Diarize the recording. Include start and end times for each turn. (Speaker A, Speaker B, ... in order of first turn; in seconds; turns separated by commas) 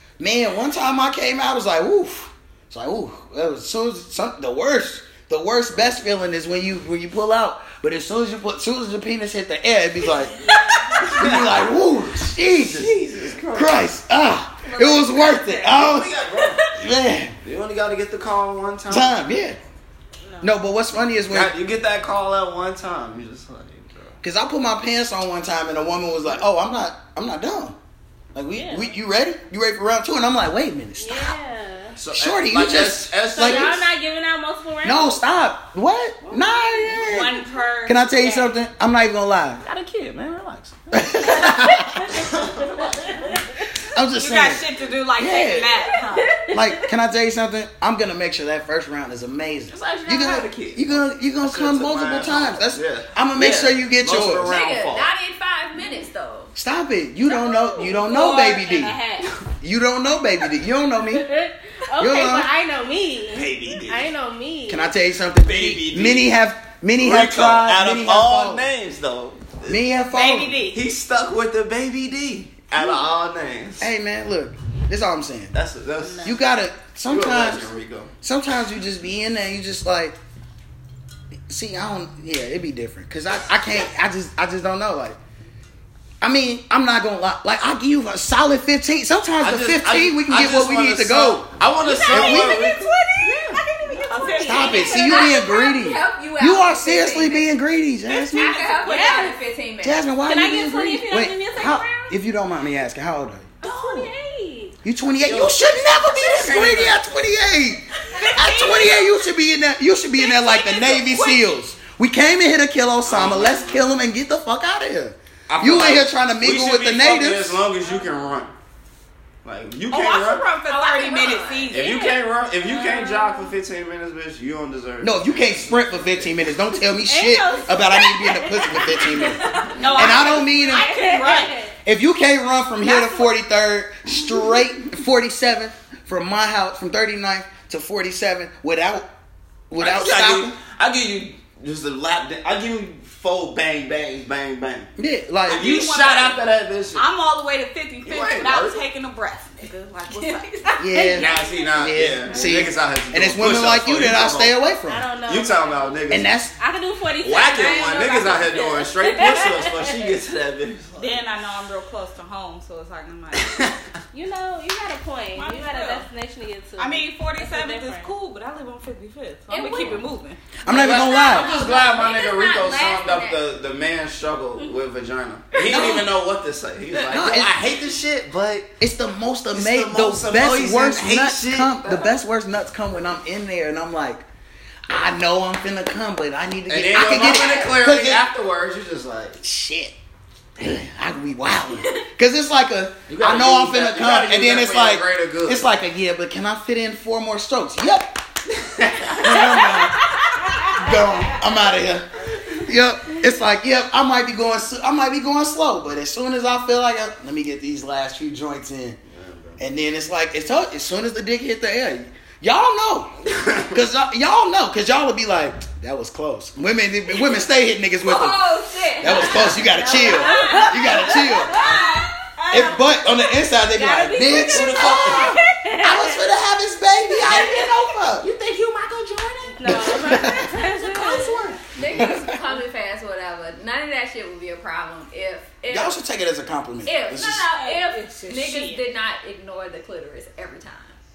Speaker A: 0.2-12.9, Speaker B: 10.0-11.2, Speaker C: 11.0-11.7, Speaker C: 12.5-13.8, Speaker A: 13.5-16.1, Speaker D: 14.7-15.7, Speaker C: 15.7-16.7, Speaker A: 16.7-17.3, Speaker C: 17.4-19.2, Speaker A: 18.9-19.6, Speaker B: 20.2-20.5, Speaker A: 20.4-21.5, Speaker C: 21.2-24.2, Speaker A: 24.2-27.8, Speaker A: 28.3-31.4, Speaker B: 28.5-28.9, Speaker B: 31.0-32.0, Speaker C: 32.0-33.9, Speaker A: 32.0-33.7, Speaker B: 33.3-35.2, Speaker A: 34.8-39.6, Speaker B: 36.2-37.3, Speaker E: 37.0-38.5, Speaker C: 39.6-41.5, Speaker A: 40.9-42.1, Speaker B: 41.4-43.6, Speaker C: 42.1-43.3, Speaker A: 43.9-44.6, Speaker E: 44.1-46.3, Speaker A: 45.2-45.7, Speaker B: 46.0-46.9, Speaker A: 46.5-54.5, Speaker C: 49.7-55.1, Speaker D: 54.4-56.5, Speaker A: 56.5-59.0, Speaker B: 57.3-59.3, Speaker A: 59.6-61.2, Speaker B: 61.1-64.9, Speaker A: 62.0-62.5, Speaker C: 63.3-64.1, Speaker A: 64.7-68.7, Speaker C: 65.4-66.3, Speaker C: 67.0-69.8, Speaker A: 69.7-70.5, Speaker E: 70.1-70.8, Speaker C: 70.7-73.9, Speaker A: 73.8-75.5, Speaker C: 75.5-76.4, Speaker A: 76.2-77.7, Speaker C: 77.1-78.1, Speaker A: 78.2-80.2, Speaker A: 81.5-85.2, Speaker A: 86.2-91.5, Speaker C: 89.4-93.6, Speaker B: 91.8-95.4, Speaker A: 92.1-92.7, Speaker E: 93.9-95.3, Speaker A: 94.4-98.6, Speaker D: 94.8-97.5, Speaker E: 98.3-99.3, Speaker D: 98.3-100.1, Speaker B: 98.7-99.3, Speaker A: 99.8-103.5, Speaker B: 100.2-102.2, Speaker B: 103.6-104.7, Speaker E: 103.6-104.1, Speaker A: 104.8-117.6, Speaker C: 105.2-107.0, Speaker E: 108.1-109.1, Speaker E: 110.2-111.5, Speaker C: 113.0-113.8, Speaker C: 115.5-118.5, Speaker C: 119.4-120.5, Speaker E: 119.9-122.0, Speaker D: 120.6-121.7, Speaker C: 121.7-126.5, Speaker B: 121.8-123.5, Speaker A: 125.0-131.0, Speaker B: 127.0-131.7, Speaker E: 129.7-131.6, Speaker A: 131.8-139.1, Speaker E: 132.8-133.3, Speaker A: 139.7-140.5, Speaker C: 139.8-144.9, Speaker A: 145.0-145.7, Speaker E: 145.5-146.4, Speaker C: 145.5-147.0, Speaker E: 146.9-150.8, Speaker C: 148.0-148.8, Speaker B: 150.7-152.5, Speaker A: 150.8-155.1, Speaker C: 151.1-154.5, Speaker B: 154.8-156.0, Speaker C: 155.2-156.3, Speaker A: 156.1-156.5, Speaker B: 156.6-160.0, Speaker C: 157.2-161.2, Speaker E: 161.0-163.6, Speaker C: 163.4-163.8, Speaker B: 164.1-168.1, Speaker E: 165.3-166.1, Speaker E: 166.8-170.4, Speaker D: 169.5-170.0, Speaker A: 170.6-171.6, Speaker C: 170.7-178.7, Speaker D: 170.7-173.4, Speaker E: 175.6-176.0, Speaker A: 175.6-176.1, Speaker A: 177.1-177.5, Speaker A: 178.8-184.2, Speaker C: 179.5-182.1, Speaker A: 184.9-188.2, Speaker C: 186.7-189.4, Speaker A: 189.4-189.9, Speaker A: 190.6-198.2, Speaker C: 193.1-195.7, Speaker C: 198.5-199.5, Speaker A: 199.2-209.0, Speaker B: 199.5-200.8, Speaker C: 209.1-209.6, Speaker A: 209.6-213.2, Speaker C: 213.2-213.8, Speaker A: 213.7-218.4, Speaker D: 218.0-222.1, Speaker A: 219.0-221.6, Speaker C: 219.1-219.5, Speaker B: 219.8-222.9, Speaker A: 222.5-228.3, Speaker B: 223.7-226.2, Speaker C: 224.3-225.4, Speaker C: 227.2-227.6, Speaker C: 228.2-229.7, Speaker B: 229.5-231.5, Speaker A: 229.6-231.3, Speaker D: 231.6-235.9, Speaker A: 231.9-232.4, Speaker A: 235.7-237.5, Speaker D: 236.8-240.9, Speaker E: 237.5-238.8